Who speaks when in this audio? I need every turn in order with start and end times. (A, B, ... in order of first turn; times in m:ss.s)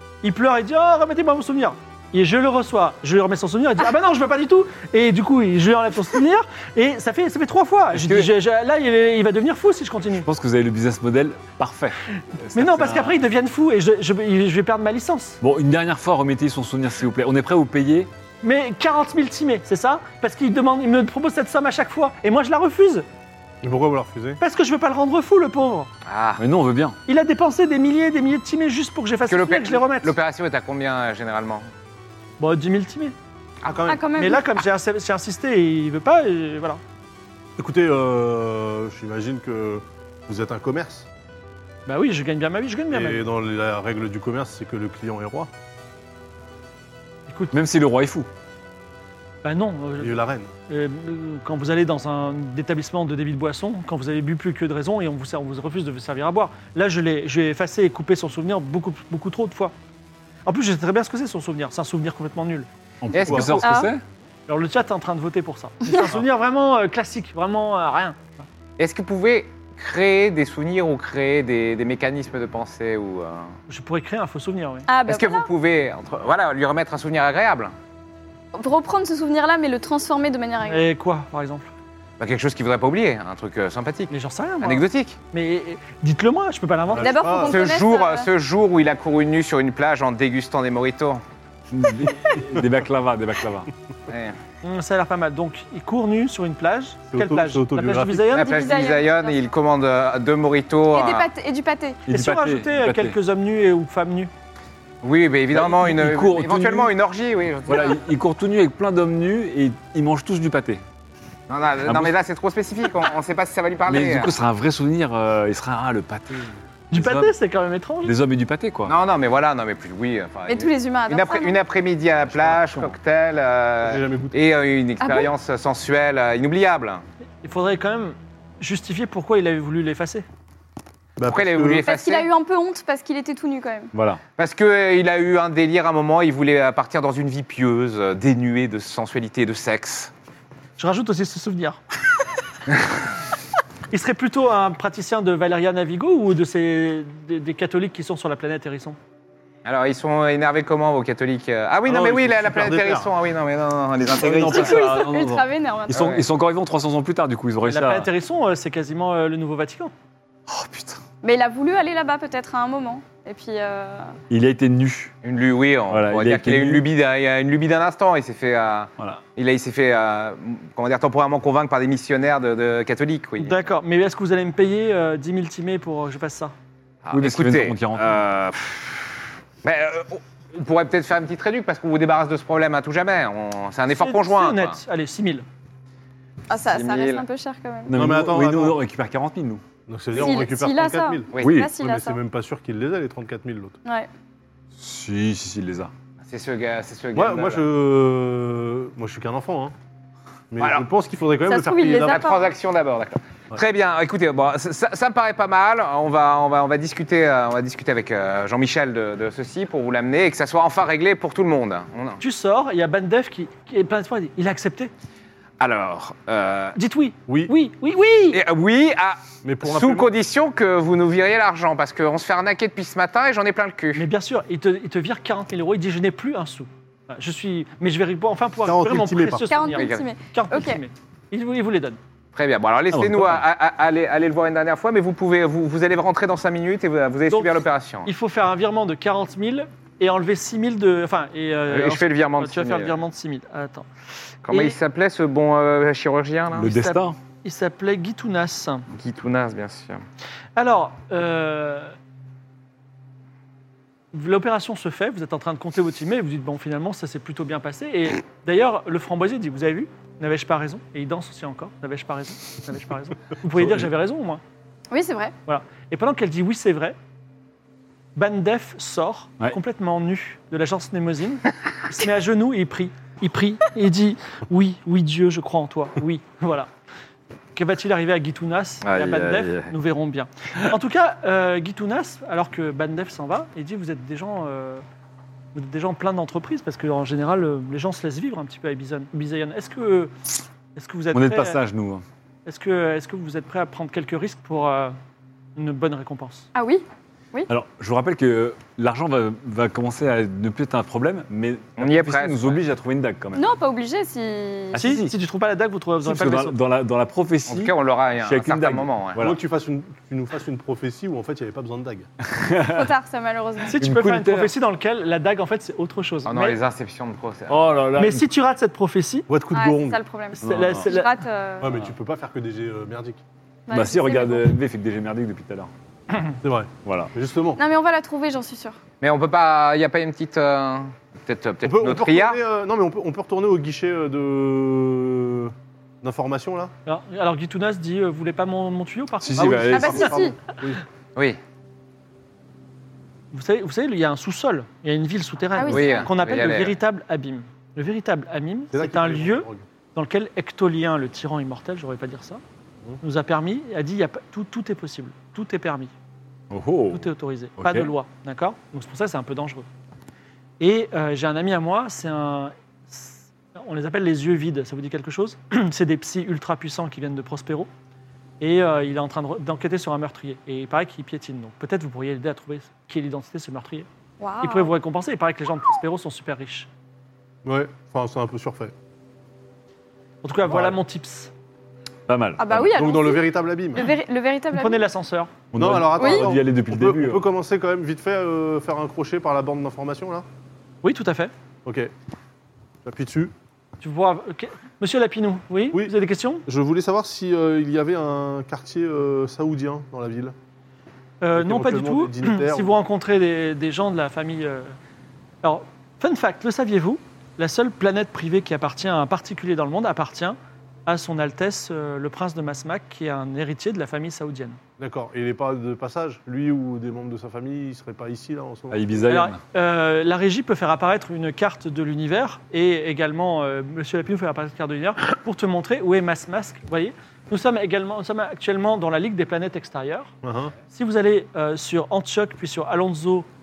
0:00.2-0:10.2 A
0:08.0-0:08.3 B
0:10.2-0:13.2 B
0:12.5-0:15.4 A
0:15.4-0:18.1 B
0:18.4-0:23.0 A
0:23.6-0:24.4 C
0:24.4-0:25.9 A
0:26.0-0:26.4 D
0:26.4-0:27.0 B
0:27.1-0:30.1 A
0:29.3-0:31.7 D
0:32.4-0:33.1 A
0:33.6-0:34.0 C
0:33.9-0:34.4 E
0:34.2-0:36.8 A
0:37.6-0:41.1 C
0:41.9-0:43.2 A
0:42.9-0:45.5 C
0:47.3-0:47.5 A
0:47.5-0:48.3 B
0:49.4-0:59.7 A
0:50.0-0:50.5 C
1:00.4-1:02.7 A
1:03.0-1:04.0 B
1:03.1-1:03.6 D
1:03.2-1:03.6 C
1:03.6-1:03.9 E
1:04.5-1:08.4 A
1:08.8-1:13.5 D
1:13.7-1:14.9 A
1:14.9-1:15.5 E
1:15.0-1:17.7 D
1:18.5-1:20.8 E
1:20.6-1:21.7 A
1:22.2-1:25.2 D
1:24.1-1:27.2 A
1:26.9-1:27.6 C
1:27.0-1:28.3 E
1:27.5-1:31.2 D
1:31.7-1:33.7 B
1:34.1-1:34.4 D
1:34.6-1:38.9 A
1:37.1-1:38.3 C
1:38.3-1:41.3 D
1:38.4-1:39.4 E
1:40.9-1:42.0 E
1:42.1-1:43.2 B
1:42.1-1:44.3 A
1:45.0-1:48.0 D
1:45.5-1:46.9 B
1:47.7-1:50.8 B
1:51.5-1:54.3 D
1:51.8-1:52.1 B
1:53.9-1:57.3 B
1:56.9-1:58.1 A
1:58.0-1:58.9 B
1:58.8-2:07.0 D
2:00.5-2:01.6 E
2:03.8-2:04.4 C
2:05.0-2:05.3 E
2:07.4-2:10.2 A
2:11.2-2:11.8 C
2:11.2-2:12.3 D
2:11.8-2:13.9 E
2:13.9-2:14.2 B
2:14.4-2:20.1 D
2:20.8-2:21.8 A
2:23.9-2:29.0 A
2:29.6-2:35.0 D
2:31.8-2:33.1 C
2:34.1-2:38.1 B
2:34.4-2:36.1 E
2:35.9-2:36.2 D
2:37.6-2:39.9 A
2:40.5-2:41.0 B
2:41.2-2:44.1 E
2:44.3-2:45.1 B
2:45.2-2:53.6 D
2:45.9-2:46.8 B
2:53.4-2:56.5 A
2:57.0-3:04.8 D
2:57.1-2:58.2 B
3:03.9-3:05.4 A
3:06.5-3:07.9 E
3:06.6-3:07.2 D
3:07.9-3:08.8 C
3:07.9-3:09.6 B
3:09.9-3:13.8 C
3:10.2-3:12.2 E
3:11.4-3:11.7 B
3:14.8-3:15.9 B
3:16.2-3:17.6 D
3:17.1-3:19.7 C
3:20.5-3:22.3 C
3:20.6-3:20.8 D
3:21.4-3:22.4 E
3:22.0-3:32.2 D
3:32.2-3:34.9 A
3:35.6-3:36.8 D
3:36.7-3:38.4 A
3:37.3-3:37.5 C
3:38.3-3:44.0 D
3:39.4-3:40.1 C
3:43.9-3:52.0 A
3:48.6-3:49.5 C
3:49.4-3:50.8 E
3:49.7-3:50.1 D
3:52.3-3:58.1 D
3:52.9-3:53.4 B
3:57.3-4:03.9 A
4:01.7-4:02.9 D
4:04.4-4:06.7 D
4:04.5-4:04.8 A
4:06.5-4:07.2 B
4:06.6-4:08.8 A
4:08.9-4:10.0 D
4:10.6-4:11.9 A
4:14.1-4:24.4 A
4:23.5-4:23.9 B
4:24.9-4:25.3 E
4:25.5-4:27.0 A
4:28.2-4:36.7 A
4:37.5-4:44.8 A
4:38.8-4:39.7 D
4:45.5-4:50.1 A
4:50.8-4:51.6 A
4:51.1-4:52.0 B
4:52.4-4:55.0 A
4:55.6-4:56.5 A
4:56.5-4:57.5 E
4:57.5-5:03.5 B
5:01.8-5:02.6 D
5:03.3-5:04.8 E
5:04.7-5:05.1 B
5:04.8-5:06.5 A
5:06.0-5:09.4 B
5:07.5-5:09.2 D
5:09.2-5:12.1 C
5:12.2-5:12.9 B
5:12.6-5:13.8 E
5:13.7-5:16.6 A
5:13.8-5:14.5 B
5:16.2-5:17.7 D
5:17.5-5:18.2 B
5:18.0-5:19.3 A
5:19.3-5:20.0 C
5:19.5-5:21.8 E
5:20.3-5:21.2 A
5:20.4-5:20.9 B
5:21.6-5:23.2 C
5:23.7-5:24.5 E
5:23.7-5:25.7 B
5:26.4-5:27.6 C
5:26.8-5:27.1 B
5:27.6-5:28.8 E
5:29.0-5:32.4 D
5:31.6-5:36.7 C
5:36.8-5:40.0 A
5:39.2-5:40.1 B
5:39.3-5:40.8 C
5:39.7-5:40.3 E
5:43.3-5:52.4 A
5:45.6-5:46.0 E
5:45.6-5:46.8 D
5:48.7-5:49.6 C
5:53.0-5:55.9 A
5:56.5-5:57.9 B
5:56.9-5:59.6 A
6:00.6-6:07.7 A
6:08.4-6:13.9 A
6:14.2-6:14.7 E
6:14.4-6:16.7 A
6:17.4-6:18.7 C
6:20.2-6:21.3 A
6:20.4-6:20.8 C
6:22.1-6:22.7 B
6:22.4-6:24.8 E
6:22.5-6:23.9 C
6:24.5-6:25.3 A
6:25.5-6:27.2 B
6:25.6-6:30.2 C
6:26.0-6:26.3 E
6:30.8-6:31.3 A
6:31.6-6:31.9 C
6:32.8-6:33.3 C
6:33.8-6:36.4 A
6:36.5-6:40.3 C
6:41.2-6:44.7 A
6:41.3-6:42.7 C
6:45.4-6:54.6 A
6:54.8-6:59.0 C
6:58.7-6:59.4 B
6:59.1-7:10.1 A
7:10.2-7:10.5 C
7:10.7-7:13.3 A